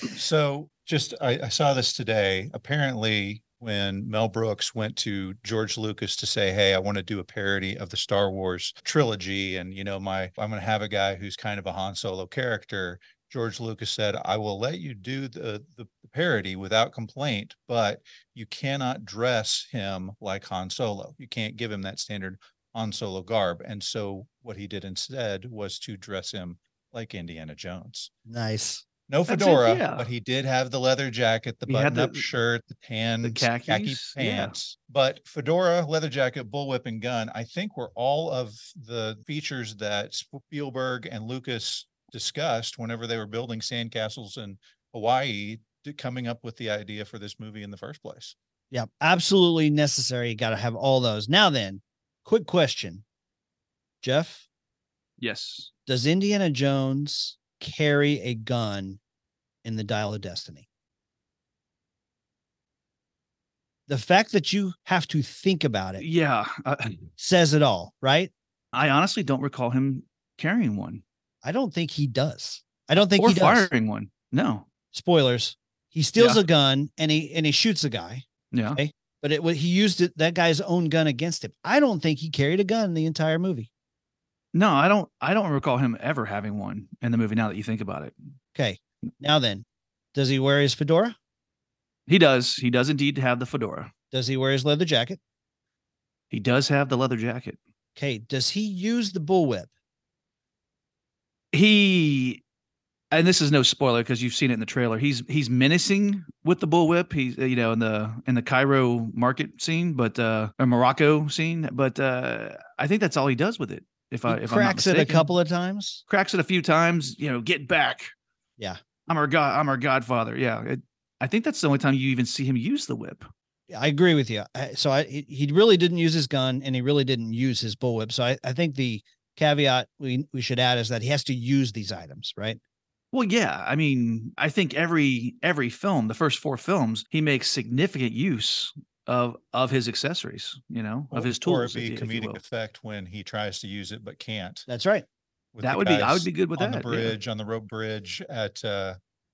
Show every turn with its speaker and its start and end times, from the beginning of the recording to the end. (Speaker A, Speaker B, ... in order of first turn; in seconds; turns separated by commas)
Speaker A: 0.1-28.1, Speaker B: 28.3-28.8, Speaker A: 29.1-48.4, Speaker C: 29.3-30.1, Speaker C: 31.7-32.2, Speaker C: 33.2-34.6, Speaker B: 48.7-53.0, Speaker B: 54.0-54.5, Speaker C: 55.2-55.7, Speaker B: 55.9-59.0, Speaker B: 59.6-60.7, Speaker B: 63.9-66.0, Speaker C: 66.0-67.1, Speaker B: 67.2-68.3, Speaker C: 68.7-71.0, Speaker B: 71.4-73.7, Speaker C: 73.2-74.7, Speaker B: 74.9-83.7, Speaker C: 76.2-76.4, Speaker C: 78.5-78.8, Speaker C: 84.5-88.2, Speaker B: 88.5-91.2, Speaker C: 92.1-93.9, Speaker B: 94.1-95.2, Speaker C: 96.3-97.6, Speaker B: 98.0-99.7, Speaker C: 101.5-102.4, Speaker C: 103.1-115.3, Speaker B: 114.3-116.0, Speaker C: 116.1-118.1, Speaker C: 119.1-123.3, Speaker B: 123.7-132.6, Speaker C: 133.1-142.4, Speaker A: 141.1-144.7, Speaker B: 144.7-145.1, Speaker A: 145.5-149.0, Speaker C: 145.6-147.2